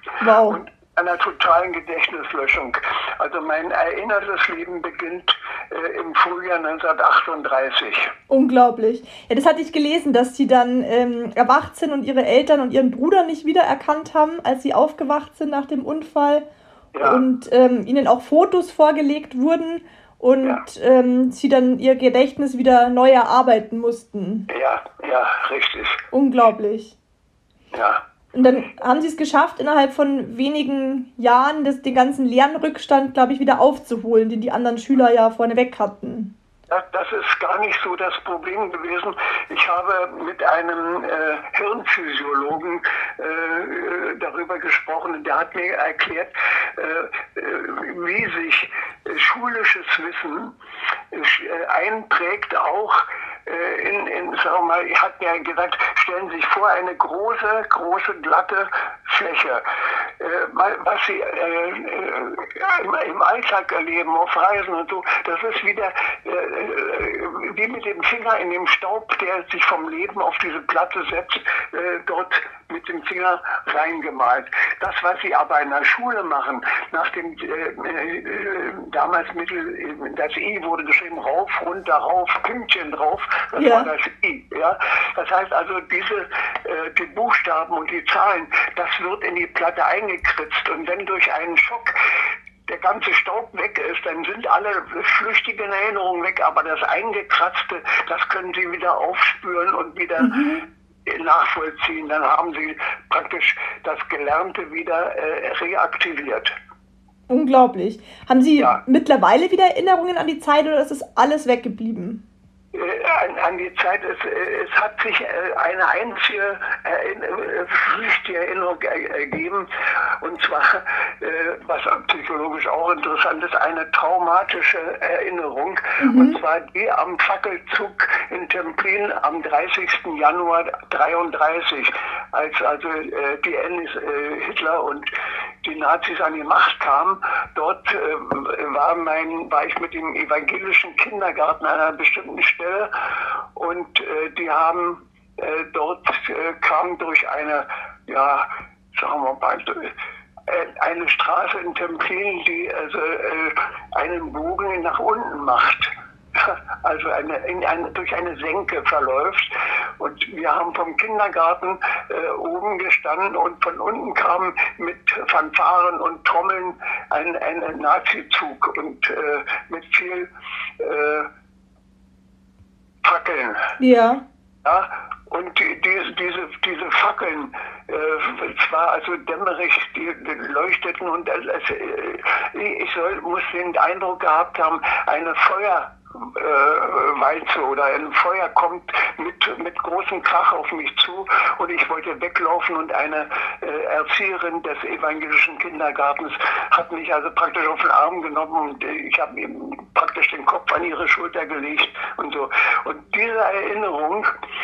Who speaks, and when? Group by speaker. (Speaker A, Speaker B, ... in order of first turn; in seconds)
Speaker A: 0.2-0.6, 8.3-16.5, 17.0-24.5, 26.1-27.0, 28.3-36.3, 83.6-83.9, 100.2-100.6, 107.3-112.2, 126.0-126.4, 173.8-174.2
Speaker B: 0.4-8.1, 16.9-17.2, 24.5-26.0, 27.7-28.0, 36.7-50.5, 51.1-91.9, 92.7-100.3, 101.0-106.5, 112.7-119.7, 120.2-135.1, 135.6-149.9, 150.5-170.3, 170.8-171.3, 173.0-173.8, 174.6-204.3